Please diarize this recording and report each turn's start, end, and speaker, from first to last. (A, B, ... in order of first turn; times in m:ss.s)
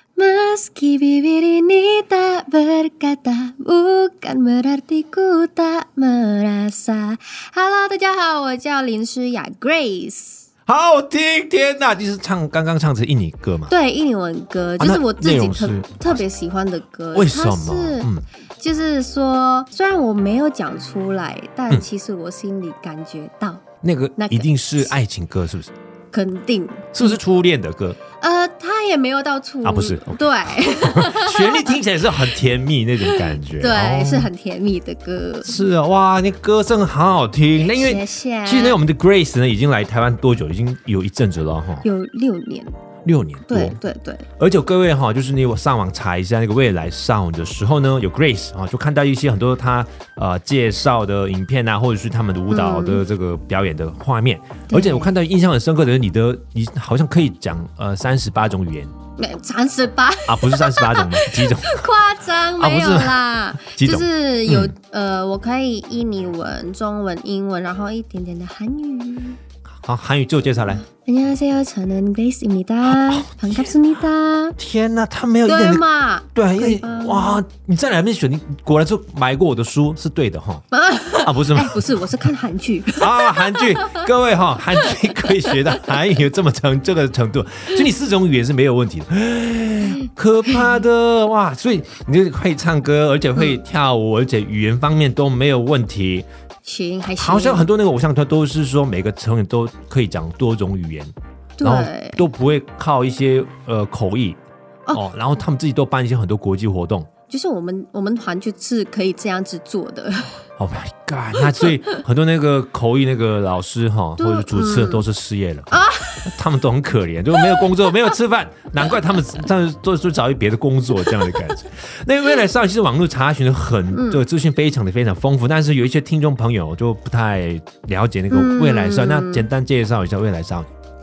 0:00.2-0:10.5 A
0:10.7-0:13.7 B
0:13.7-0:23.6 A
0:14.8-0:16.2 B
0:17.1-0:18.3 B
0:23.8-0:25.7 B
0:24.2-0:24.9 A
0:26.1-0:27.2 A
0:26.9-0:28.0 B
0:28.2-0:32.3 A
0:29.6-0:34.3 B
0:33.0-0:35.6 A
0:35.4-0:41.9 B
0:37.7-0:38.8 A
0:41.8-0:42.7 A
0:43.0-0:43.8 B
0:43.5-0:44.3 A
0:44.4-0:58.9 B
0:52.5-0:53.0 A
0:54.7-0:55.1 A
0:59.2-1:09.4 A
1:00.3-1:01.9 B
1:02.6-1:04.8 B
1:09.7-1:10.8 B
1:10.7-1:14.6 A
1:12.8-1:13.7 B
1:14.6-1:15.8 B
1:15.5-1:17.4 A
1:16.4-1:20.6 B
1:20.7-1:24.1 A
1:21.2-1:22.2 B
1:23.0-1:36.3 B
1:24.8-1:25.9 A
1:36.6-1:37.7 A
1:37.2-1:44.4 B
1:41.6-1:42.3 A
1:44.9-1:47.1 B
1:47.3-1:50.4 A
1:50.6-2:10.7 B
1:51.4-1:52.0 A
1:54.2-1:55.0 A
1:55.7-1:56.3 A
1:57.4-1:58.1 A
2:01.0-2:01.5 A
2:03.9-2:04.2 A
2:08.3-2:09.5 A